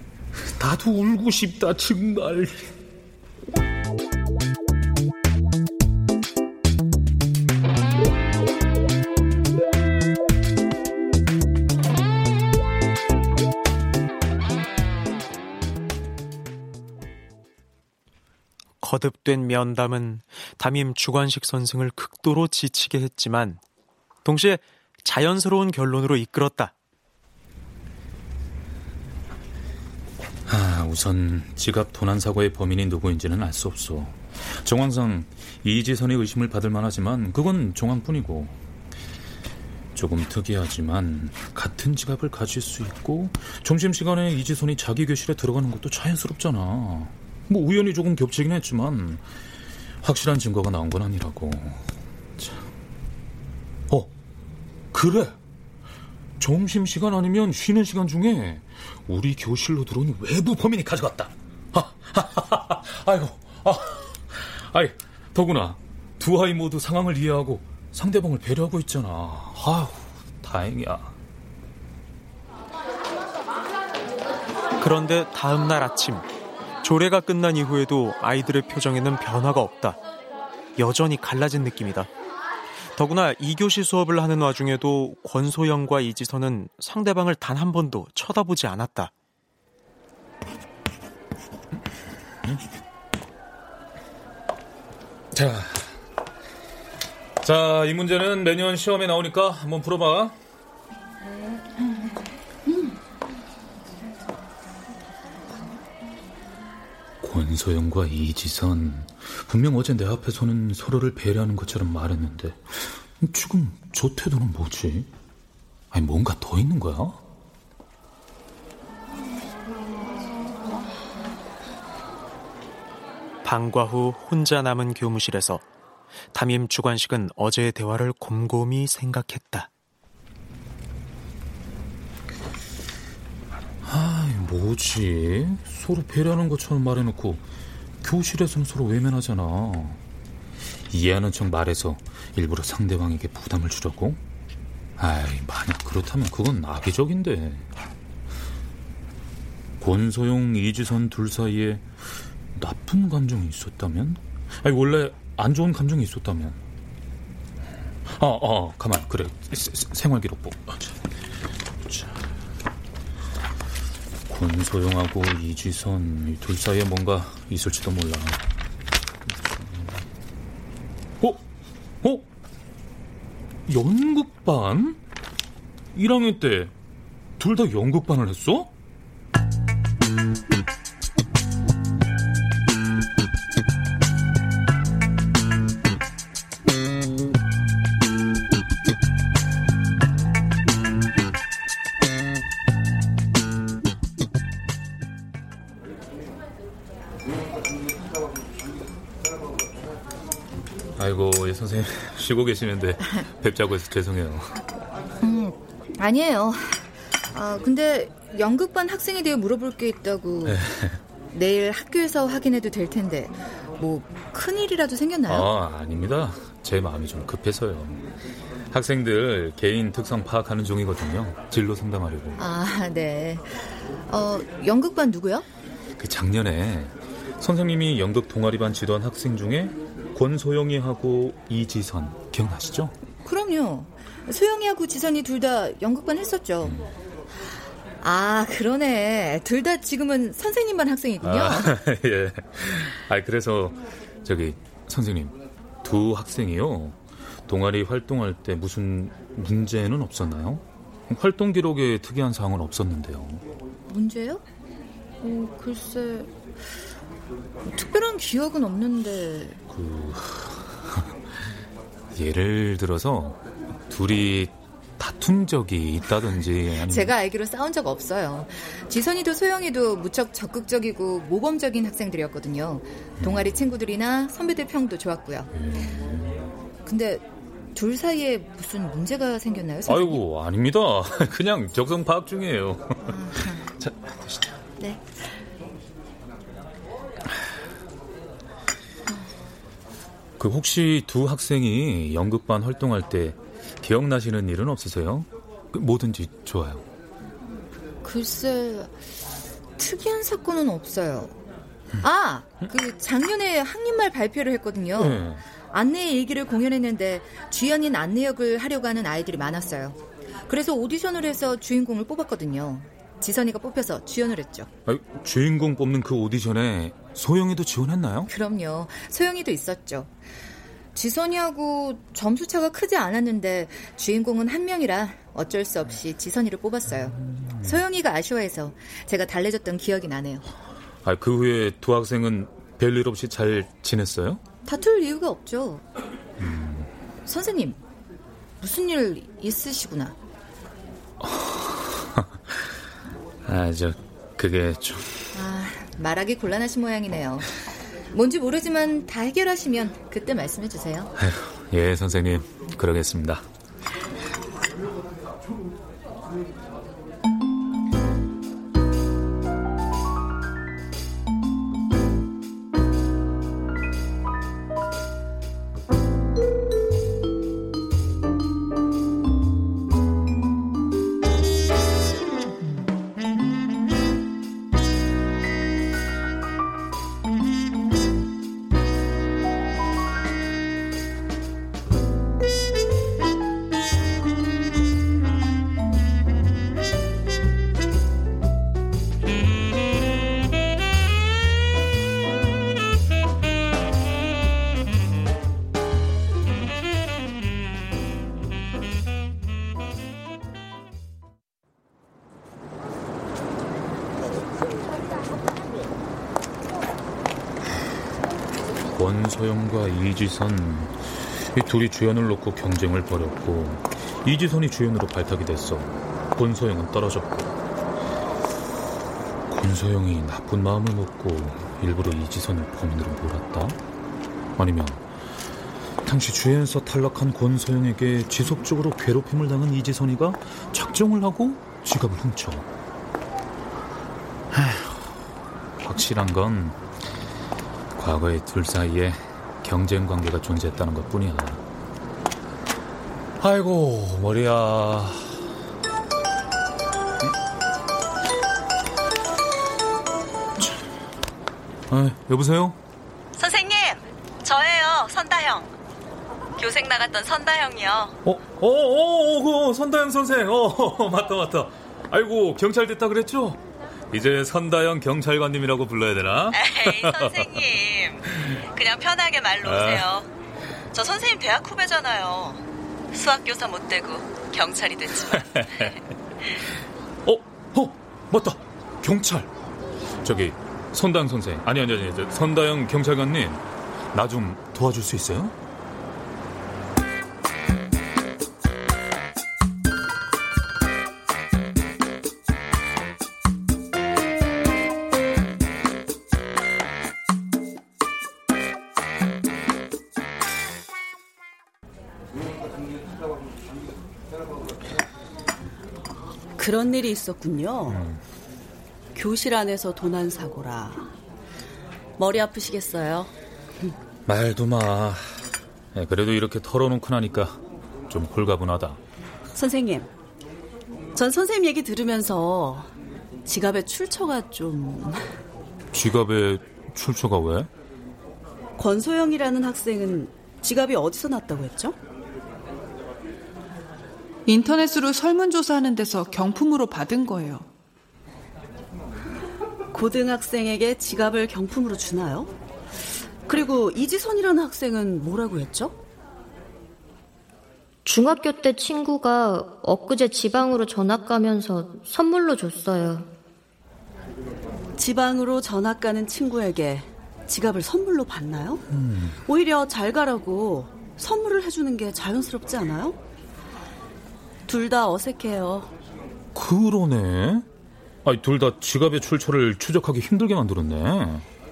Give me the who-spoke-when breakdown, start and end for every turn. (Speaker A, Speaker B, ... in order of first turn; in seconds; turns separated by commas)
Speaker A: 0.4-2.7, Speaker B: 18.8-23.6, Speaker B: 24.2-26.7, Speaker A: 30.5-38.6, Speaker A: 40.0-49.2, Speaker A: 50.0-52.6, Speaker A: 54.9-55.4, Speaker A: 56.4-71.2, Speaker B: 74.8-76.3, Speaker B: 76.8-80.0, Speaker B: 80.8-82.1, Speaker B: 83.0-89.1, Speaker A: 95.3-96.0, Speaker A: 97.4-100.4, Speaker A: 107.2-115.1, Speaker A: 115.9-117.2, Speaker B: 123.4-125.6, Speaker B: 126.3-129.7, Speaker A: 133.8-137.4, Speaker A: 138.0-140.0, Speaker A: 140.9-144.2, Speaker A: 145.0-147.7, Speaker A: 149.8-151.9, Speaker A: 152.6-156.6, Speaker A: 158.1-161.1, Speaker A: 161.8-162.2, Speaker A: 164.3-168.4, Speaker A: 173.7-175.0, Speaker A: 175.9-176.7, Speaker A: 177.4-178.7, Speaker A: 201.0-204.6, Speaker C: 205.2-210.7, Speaker A: 210.4-211.0, Speaker C: 211.3-215.5, Speaker A: 215.3-218.1, Speaker A: 218.7-222.4, Speaker C: 222.4-225.5, Speaker A: 226.0-232.9, Speaker C: 233.2-236.8, Speaker A: 236.6-236.9, Speaker C: 238.0-241.7, Speaker A: 241.2-253.4, Speaker C: 253.9-254.4, Speaker C: 255.2-256.3, Speaker C: 257.7-259.6, Speaker A: 259.7-261.1, Speaker A: 262.1-267.1, Speaker C: 266.8-275.5, Speaker A: 273.2-273.5, Speaker A: 275.6-276.5, Speaker C: 276.9-280.2, Speaker A: 279.9-283.1, Speaker C: 283.1-283.6, Speaker A: 283.8-284.3, Speaker C: 284.8-285.1, Speaker A: 290.4-296.8, Speaker C: 298.0-299.0, Speaker C: 299.8-301.4, Speaker C: 302.0-314.7, Speaker A: 305.0-305.4, Speaker A: 314.9-318.3, Speaker C: 318.3-320.1, Speaker C: 320.9-330.4, Speaker A: 327.4-327.8, Speaker A: 331.0-334.4, Speaker C: 334.6-335.8, Speaker A: 336.4-336.9, Speaker C: 337.3-337.8, Speaker C: 338.6-340.1, Speaker A: 341.2-342.6, Speaker A: 343.4-345.3, Speaker C: 345.3-351.1, Speaker A: 351.2-353.4, Speaker A: 408.9-417.6, Speaker A: 419.5-423.8, Speaker A: 424.6-425.1, Speaker A: 426.1-432.7, Speaker A: 434.5-435.1, Speaker A: 435.8-436.8, Speaker A: 438.0-441.6, Speaker A: 443.4-445.4, Speaker A: 451.9-452.8, Speaker D: 453.3-455.7, Speaker D: 456.6-458.1, Speaker A: 458.2-463.6, Speaker A: 464.1-467.6, Speaker D: 466.5-470.3, Speaker A: 469.6-470.1, Speaker D: 470.9-472.6, Speaker D: 473.1-476.0, Speaker A: 475.6-475.9, Speaker A: 477.3-479.5, Speaker A: 480.2-485.6, Speaker E: 506.6-508.0, Speaker A: 507.9-508.2, Speaker E: 509.1-511.1, Speaker E: 512.2-513.3, Speaker A: 514.3-515.2, Speaker A: 515.9-519.0, Speaker E: 519.5-520.1, Speaker E: 521.1-522.9, Speaker E: 523.5-525.4, Speaker A: 525.9-527.7, Speaker E: 528.8-532.0, Speaker F: 534.5-537.7, Speaker E: 539.9-542.5, Speaker E: 543.5-546.0, Speaker G: 548.0-553.3, Speaker E: 555.0-558.8, Speaker A: 558.9-559.4, Speaker E: 559.5-563.2, Speaker E: 564.7-565.9, Speaker A: 566.5-567.7, Speaker A: 568.2-571.5